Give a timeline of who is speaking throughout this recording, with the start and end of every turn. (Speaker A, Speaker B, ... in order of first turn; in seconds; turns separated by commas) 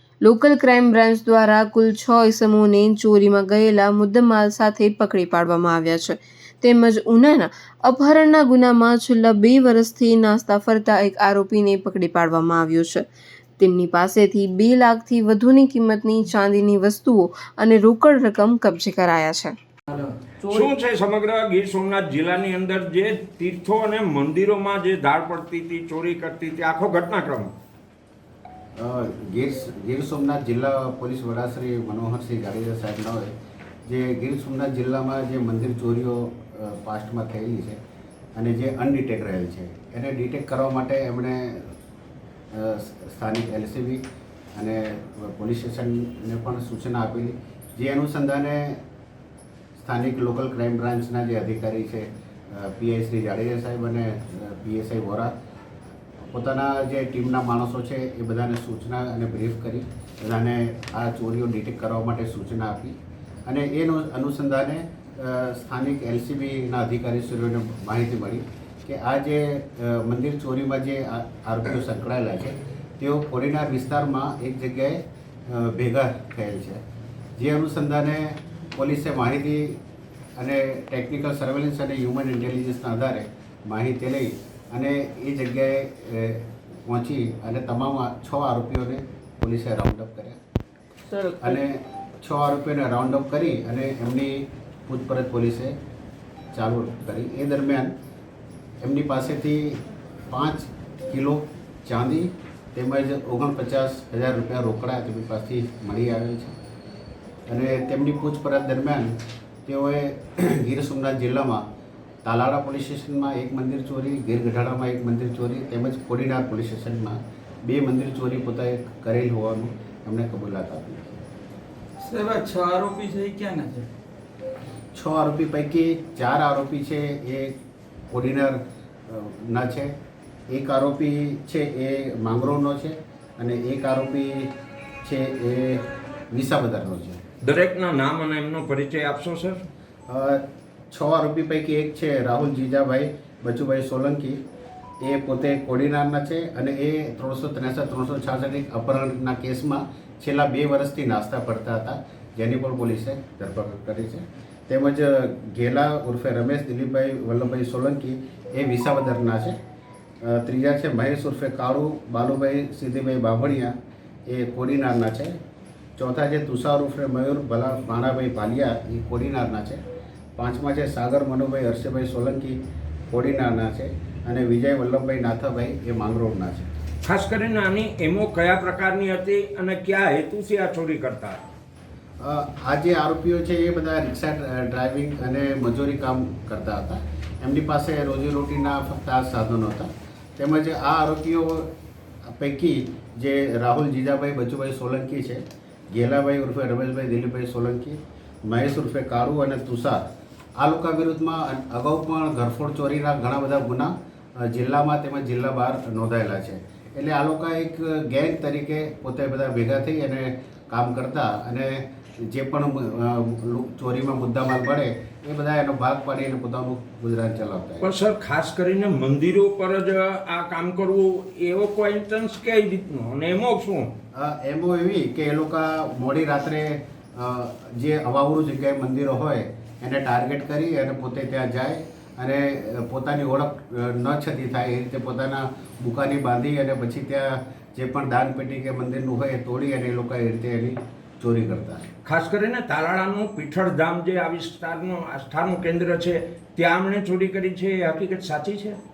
Speaker A: 0.2-13.0, Speaker A: 13.6-19.5, Speaker B: 19.9-20.7, Speaker C: 20.4-27.5, Speaker D: 28.8-33.3, Speaker D: 33.9-37.8, Speaker D: 38.4-41.7, Speaker D: 42.5-44.0, Speaker D: 44.5-48.8, Speaker D: 49.8-55.3, Speaker D: 56.3-76.8, Speaker D: 77.4-79.8, Speaker D: 80.4-90.4, Speaker B: 91.0-91.5, Speaker D: 91.4-95.7, Speaker D: 96.5-97.9, Speaker D: 98.8-106.5, Speaker D: 107.5-111.6, Speaker D: 112.2-121.2, Speaker B: 122.0-123.9, Speaker D: 124.9-127.5, Speaker D: 128.1-129.9, Speaker D: 130.5-134.5, Speaker D: 135.0-137.2, Speaker C: 137.4-139.6, Speaker D: 140.1-144.4, Speaker D: 145.0-159.6, Speaker D: 160.2-163.7, Speaker D: 164.3-165.4, Speaker D: 166.0-169.8, Speaker D: 170.4-172.6, Speaker D: 173.1-176.7, Speaker C: 177.0-181.4, Speaker D: 182.2-191.7, Speaker D: 192.2-200.0, Speaker D: 200.6-217.9, Speaker C: 217.8-223.9, Speaker D: 224.1-241.8, Speaker C: 242.1-248.8